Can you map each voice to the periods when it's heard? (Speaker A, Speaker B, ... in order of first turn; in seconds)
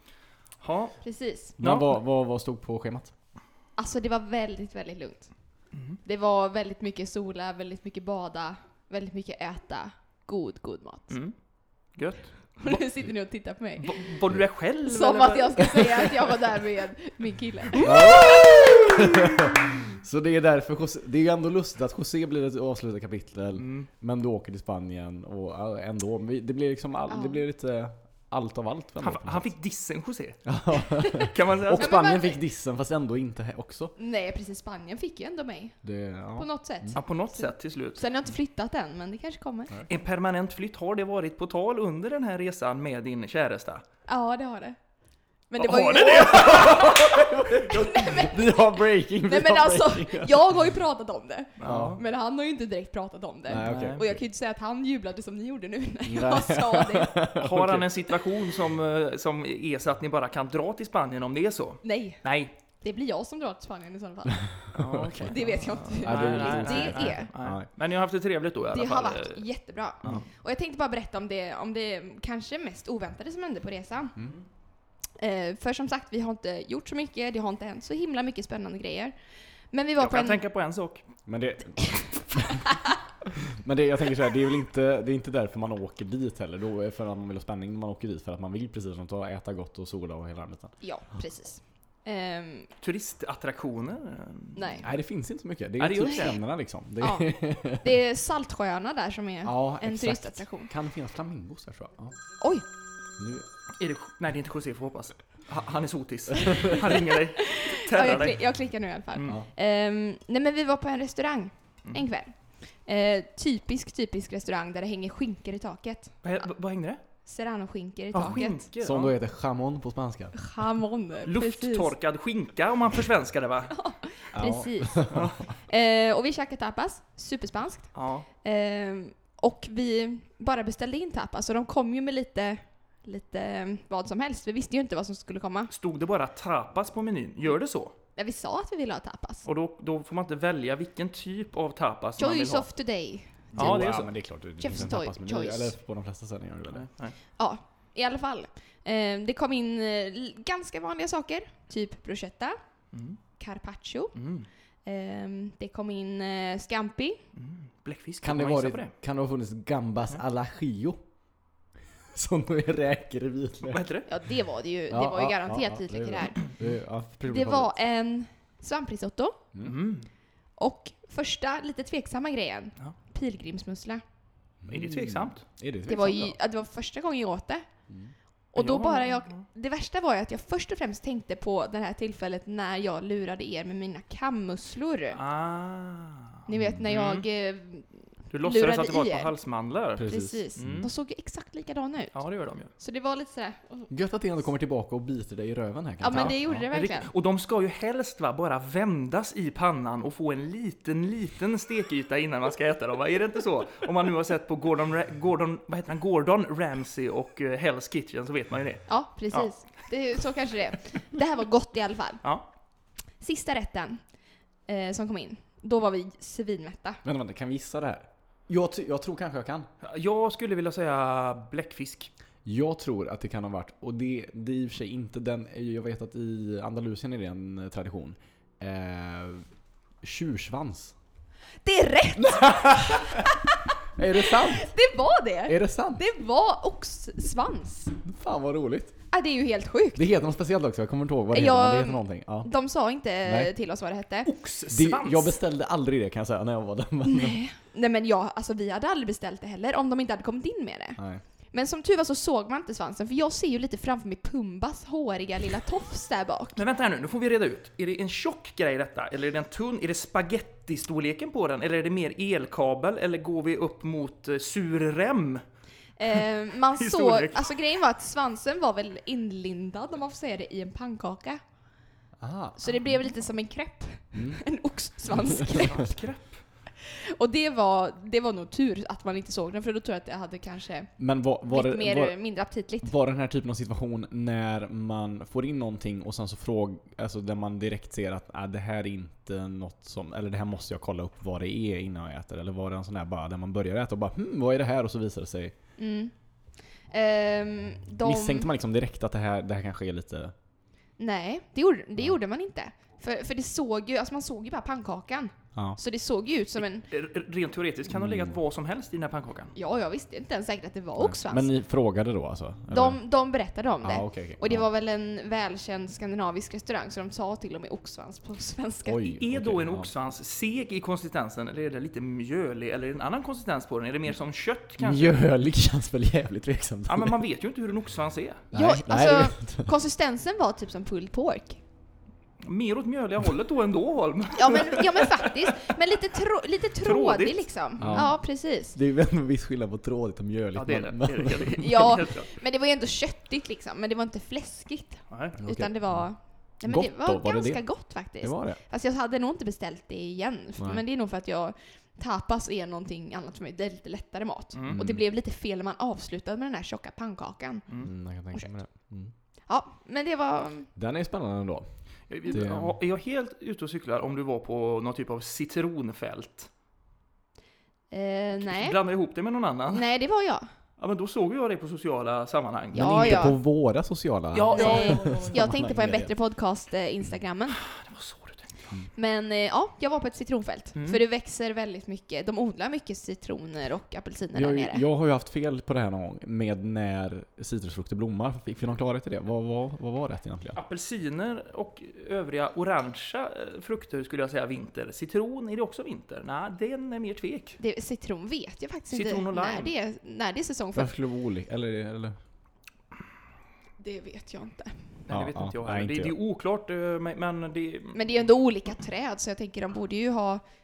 Speaker A: 0.6-1.0, 1.6-2.0, 5.7-6.0, 11.9-12.8, 13.8-16.1, 23.6-23.9, 29.0-30.5, 31.1-31.9, 37.0-38.0, 39.9-43.8, 45.6-47.0, 51.6-52.0, 53.6-54.0, 57.4-62.5, 64.8-69.4, 80.0-81.0, 92.8-94.9, 95.8-96.4, 103.8-108.4, 116.2-117.0, 118.1-119.2, 121.2-123.7, 125.1-125.4, 128.0-128.3, 135.7-137.9, 139.5-142.7, 143.6-144.1, 146.7-147.2, 152.9-153.2, 154.2-154.5, 157.4-158.9, 163.7-164.1, 169.6-170.1, 174.7-175.5, 178.6-179.4, 185.2-187.3, 188.3-190.9, 192.1-192.7, 196.1-209.5, 219.8-222.1, 244.2-245.4, 256.6-265.4, 266.7-267.5, 275.4-276.4, 306.9-309.5, 319.2-325.2, 326.9-328.4, 332.4-335.7, 336.8-338.1, 340.6-342.3, 345.1-345.4, 354.6-354.8, 362.1-366.5, 368.4-369.9, 370.8-373.2, 374.3-375.6, 377.6-378.5, 390.6-397.6, 398.9-399.7, 405.1-408.2
Speaker B: 1.0-1.6, 3.8-5.3, 6.0-11.2, 12.6-14.1, 14.9-19.1, 27.1-27.4, 31.0-32.4, 34.0-35.8, 36.4-39.7, 44.1-44.8, 45.5-57.2, 61.8-62.2, 62.8-64.5, 65.2-67.3, 68.7-74.2, 75.2-79.2, 79.7-80.4, 90.8-92.7, 94.6-94.8, 97.0-100.7, 107.4-116.2, 117.2-118.6, 120.3-121.9, 123.7-135.7, 138.2-139.5, 142.2-143.8, 144.6-145.7, 147.4-152.6, 153.4-154.2, 154.8-157.2, 164.1-166.5, 167.3-169.4, 170.6-174.0, 175.9-177.7, 178.5-185.2, 186.5-189.3, 190.1-192.2, 192.8-193.9, 196.0-197.1, 208.9-212.2, 213.2-214.0, 214.7-217.0, 231.6-237.9, 239.1-240.1, 241.3-244.3, 247.1-251.0, 251.5-256.6, 266.0-271.4, 272.6-275.9, 276.8-280.9, 281.5-282.9, 295.8-296.1, 296.9-298.5, 301.0-306.9, 309.6-311.5, 312.7-319.1, 328.5-331.6, 334.4-338.8, 341.6-357.6, 359.5-360.7, 367.9-368.8, 369.7-370.5, 372.7-373.4, 374.5-377.6, 378.9-384.8, 397.6-400.9, 403.8-404.8, 407.9-410.4
Speaker C: 1.6-3.1, 17.8-29.5, 30.5-34.0, 35.8-37.0, 46.3-50.5, 51.6-52.0, 53.5-54.2, 56.1-58.1, 64.8-65.3, 66.0-67.7, 81.3-90.7, 94.8-98.0, 99.4-102.2, 103.2-103.5, 106.4-106.7, 118.3-120.4, 124.3-125.4, 143.5-146.9, 158.2-161.0, 162.1-163.8, 164.9-167.8, 174.6-176.3, 190.0-190.9, 193.9-196.6, 217.0-219.7, 222.4-229.5, 230.0-230.9, 232.2-233.3, 234.0-234.7, 235.5-236.0, 238.0-238.9, 239.9-242.5, 243.2-243.5, 244.7-247.4, 251.0-251.2, 272.2-272.7, 274.1-274.4, 281.0-282.2, 282.8-295.6, 298.0-300.3, 307.9-308.4, 311.0-313.0, 313.8-314.7, 318.9-319.9, 324.8-327.2, 328.5-329.7, 337.8-338.2, 338.7-341.6, 345.4-346.1, 346.6-347.6, 348.2-348.6, 354.7-355.0, 357.8-359.1, 360.8-361.7, 362.2-362.8, 372.7-376.1, 384.3-390.6, 400.8-402.2, 405.1-406.2